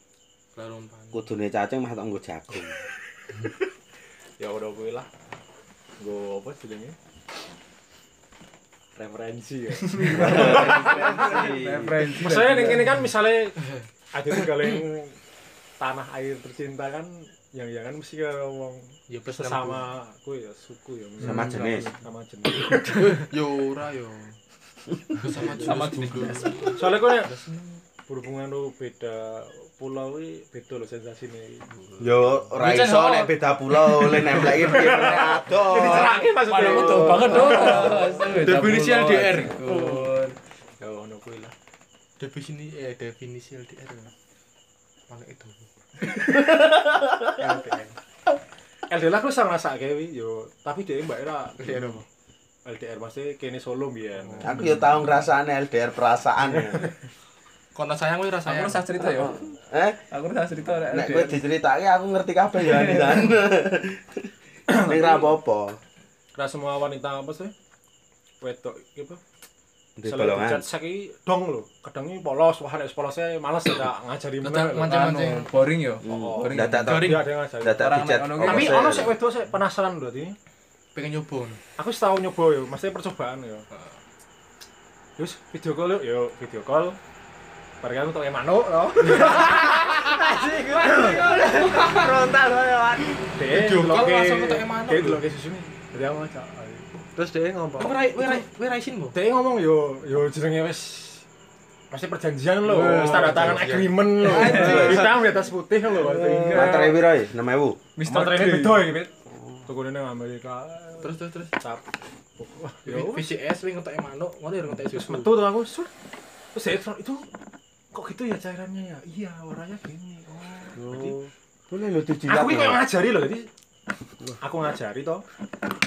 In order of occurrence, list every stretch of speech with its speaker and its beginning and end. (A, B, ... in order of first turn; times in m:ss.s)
0:00.5-0:01.2 A
0:01.1-0:02.8 B
0:04.4-0:05.1 C
0:06.0-0:07.0 C
0:09.0-0:11.4 C
0:10.0-0:10.5 D
0:10.1-0:12.1 B
0:10.2-0:12.7 E
0:11.6-0:13.0 D
0:12.2-0:15.2 C
0:15.8-0:23.3 C
0:19.1-0:19.8 A
0:21.2-0:21.9 B
0:21.4-0:21.8 D
0:22.8-0:24.4 A
0:25.1-0:27.8 A
0:25.4-0:25.7 C
0:25.6-0:26.9 D
0:26.7-0:27.3 C
0:28.1-0:31.7 C
0:32.0-0:36.6 B
0:32.6-0:33.3 A
0:33.9-0:34.6 A
0:34.5-0:38.3 C
0:36.3-0:40.4 D
0:37.4-0:39.9 A
0:40.8-0:41.5 C
0:42.2-0:44.1 A
0:45.1-0:45.6 A
0:46.2-0:47.4 B
0:47.4-0:47.9 C
0:48.9-0:52.0 C
0:51.6-0:52.0 A
0:52.6-0:54.6 C
0:54.4-0:56.9 B
0:57.7-0:58.8 A
0:58.4-0:59.4 D
0:59.0-1:00.0 B
1:00.1-1:01.4 D
1:00.9-1:05.8 B
1:02.6-1:03.4 D
1:04.7-1:05.3 C
1:06.4-1:07.5 C
1:08.4-1:09.2 C
1:10.0-1:10.6 B
1:10.0-1:15.0 C
1:14.4-1:15.5 A
1:14.8-1:19.0 D
1:16.0-1:19.2 B
1:16.1-1:20.4 C
1:16.8-1:17.3 A
1:20.9-1:21.6 A
1:21.8-1:23.7 C
1:25.2-1:27.0 C
1:27.8-1:29.8 C
1:29.2-1:32.1 A
1:29.3-1:33.2 E
1:33.3-1:36.9 C
1:33.5-1:35.2 A
1:37.1-1:38.3 E
1:37.8-1:39.1 A
1:39.1-1:41.2 C
1:41.9-1:46.8 C
1:42.6-1:45.0 E
1:42.8-1:43.8 D
1:43.7-1:45.1 A
1:44.4-1:44.9 D
1:44.5-1:45.0 B
1:46.2-1:47.0 D
1:46.5-1:47.8 B
1:48.0-1:48.9 D
1:48.0-1:49.1 C
1:49.6-1:51.8 C
1:51.0-1:51.5 A
1:52.4-1:53.3 C
1:52.8-1:55.5 A
1:54.9-1:55.9 C
1:56.5-1:57.2 C
1:57.9-2:01.3 C
2:00.8-2:01.2 E
2:01.7-2:02.8 B
2:02.3-2:03.5 C
2:04.4-2:05.2 C